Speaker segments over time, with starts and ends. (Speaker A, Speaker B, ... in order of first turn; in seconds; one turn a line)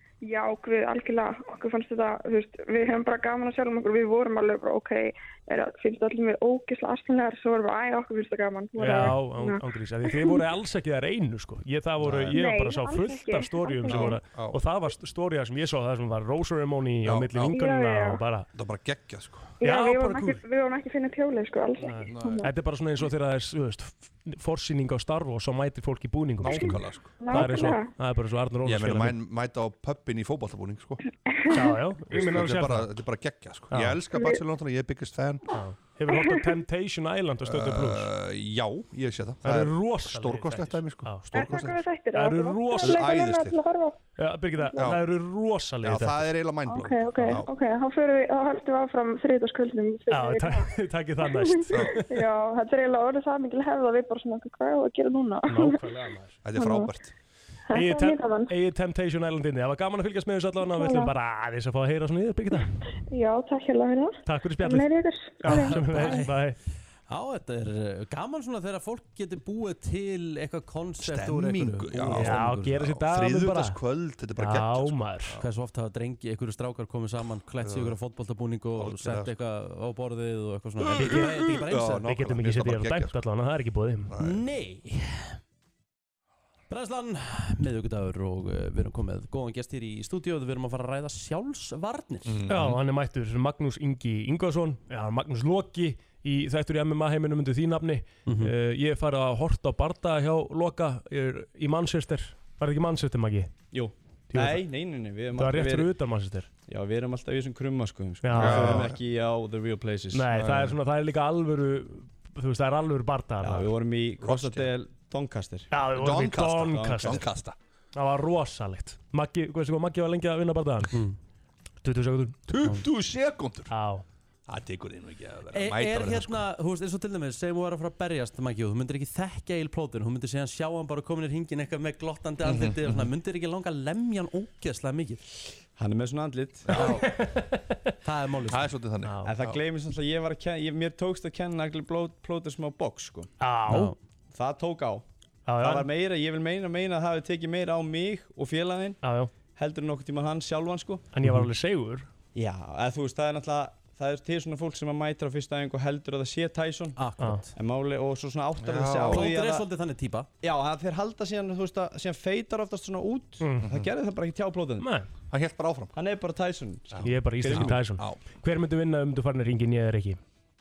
Speaker A: 0.2-10.4
Speaker B: 8.8-18.5
Speaker C: 12.0-12.3
Speaker A: 12.3-14.2
Speaker C: 13.9-14.6
Speaker C: 17.1-17.5
Speaker A: 17.5-18.2
Speaker C: 18.5-19.5
Speaker B: 19.6-20.4
Speaker A: 19.6-22.5
Speaker B: 21.8-29.2
Speaker C: 22.1-22.5
Speaker C: 26.4-27.1
Speaker A: 27.2-27.9
Speaker C: 28.6-31.0
Speaker B: 31.5-32.9
Speaker C: 32.1-35.5
Speaker B: 33.7-34.0
Speaker B: 35.5-38.1
Speaker A: 36.1-36.4
Speaker C: 37.4-41.8
Speaker B: 39.4-41.5
Speaker A: 41.3-44.0
Speaker B: 42.1-43.1
Speaker C: 42.8-43.6
Speaker B: 44.2-46.2
Speaker A: 44.6-44.9
Speaker C: 44.8-45.0
Speaker C: 45.8-47.5
Speaker A: 46.7-50.7
Speaker B: 50.1-52.2
Speaker A: 51.2-55.8
Speaker C: 51.7-52.0
Speaker B: 55.5-56.4
Speaker C: 56.4-57.1
Speaker A: 56.5-56.9
Speaker A: 57.7-58.5
Speaker B: 57.7-62.7
Speaker A: 60.6-61.1
Speaker A: 63.1-66.1
Speaker B: 64.3-64.9
Speaker B: 65.4-66.6
Speaker D: 65.5-66.4
Speaker D: 67.1-72.8
Speaker C: 71.0-75.4
Speaker B: 72.1-73.8
Speaker B: 74.4-75.4
Speaker D: 75.4-82.1
Speaker C: 77.6-78.0
Speaker C: 78.8-79.3
Speaker C: 80.8-83.2
Speaker B: 81.0-81.4
Speaker B: 82.0-84.1
Speaker C: 84.1-84.4
Speaker D: 84.2-85.4
Speaker D: 86.7-92.5
Speaker C: 92.3-92.8
Speaker B: 92.5-103.5
Speaker D: 98.3-98.5
Speaker E: 103.7-105.9
Speaker B: 104.3-104.7
Speaker B: 105.3-106.5
Speaker E: 106.7-110.3
Speaker B: 108.2-108.9
Speaker C: 108.3-109.0
Speaker B: 110.1-113.7
Speaker C: 110.3-110.8
Speaker E: 113.4-115.7
Speaker C: 114.2-114.7
Speaker B: 115.7-117.2
Speaker C: 115.9-117.6
Speaker E: 116.7-117.2
Speaker B: 118.0-121.0
Speaker B: 121.8-122.5
Speaker C: 122.5-123.7
Speaker B: 123.7-124.0
Speaker C: 124.5-126.4
Speaker D: 125.5-135.2
Speaker C: 132.4-132.8
Speaker E: 135.8-136.9
Speaker C: 136.7-137.1
Speaker D: 136.8-137.1
Speaker B: 137.0-137.6
Speaker D: 138.0-138.7
Speaker C: 138.5-139.6
Speaker B: 139.1-139.3
Speaker E: 139.2-143.3
Speaker B: 143.4-143.9
Speaker D: 143.7-144.0
Speaker E: 144.3-145.1
Speaker B: 145.5-145.9
Speaker E: 145.6-151.1
Speaker B: 149.0-149.3
Speaker B: 151.1-152.1
Speaker E: 152.3-157.0
Speaker D: 157.0-157.5
Speaker E: 157.6-159.7
Speaker C: 158.6-159.3
Speaker D: 159.1-160.3
Speaker E: 160.4-164.9
Speaker B: 163.4-163.7
Speaker C: 163.6-163.9
Speaker B: 164.8-165.1
Speaker C: 165.3-165.9
Speaker E: 165.9-167.8
Speaker C: 166.9-168.2
Speaker B: 167.0-170.2